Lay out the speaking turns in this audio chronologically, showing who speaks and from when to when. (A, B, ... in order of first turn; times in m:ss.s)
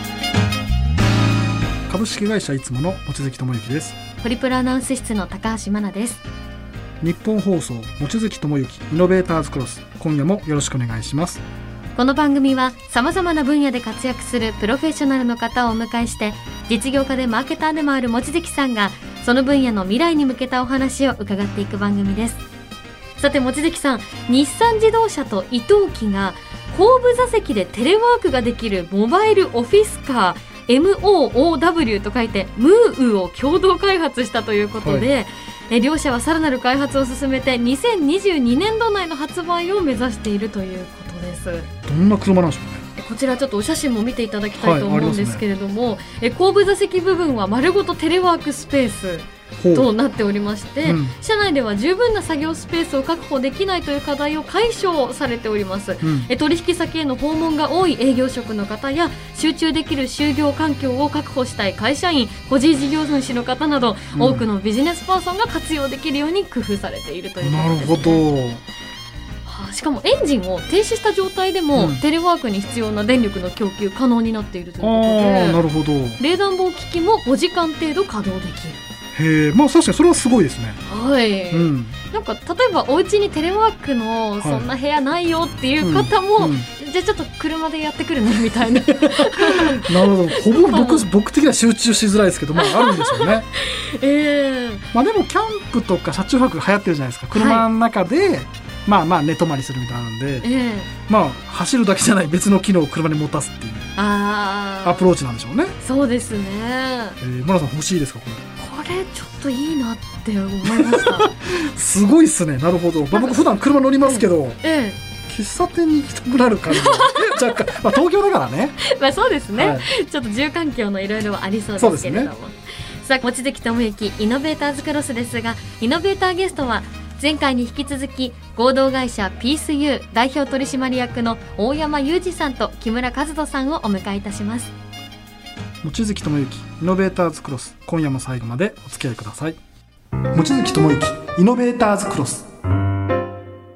0:01.9-0:04.0 A
0:04.2-0:06.2 B
0:07.0-0:11.4 A
0:12.0-0:22.4 B
0:23.2-0:41.7 B
0:34.8-0:35.1 A
0:41.9-0:42.8 A
0:43.0-1:08.2 B
0:44.6-0:45.4 A
0:49.6-0:49.9 A
0:50.8-0:51.1 A
0:56.0-0:56.3 A
1:04.1-1:04.5 A
1:07.4-1:08.6 A
1:09.4-1:15.6 B
1:11.7-1:12.0 A
1:14.8-1:16.2 A
1:16.2-1:18.8 B
1:19.1-1:20.8 A
1:20.8-1:31.1 B
1:21.5-1:22.0 A
1:24.4-1:24.7 A
1:25.8-1:26.7 A
1:29.1-1:33.4 A
1:32.6-1:34.9 B
1:34.9-1:40.5 A
1:37.3-1:37.6 B
1:40.4-1:40.9 B
1:41.1-1:43.9 A
1:44.0-1:45.1 B
1:44.8-1:45.7 A
1:45.8-1:47.2 B
1:47.2-1:48.4 A
1:48.6-1:51.3 B
1:50.7-1:54.6 A
1:53.1-1:55.0 B
1:55.3-1:58.8 A
1:56.7-1:57.4 B
1:58.8-2:14.7 B
1:59.5-1:59.9 A
2:01.8-2:02.3 A
2:15.8-2:19.6 A
2:20.3-2:22.4 A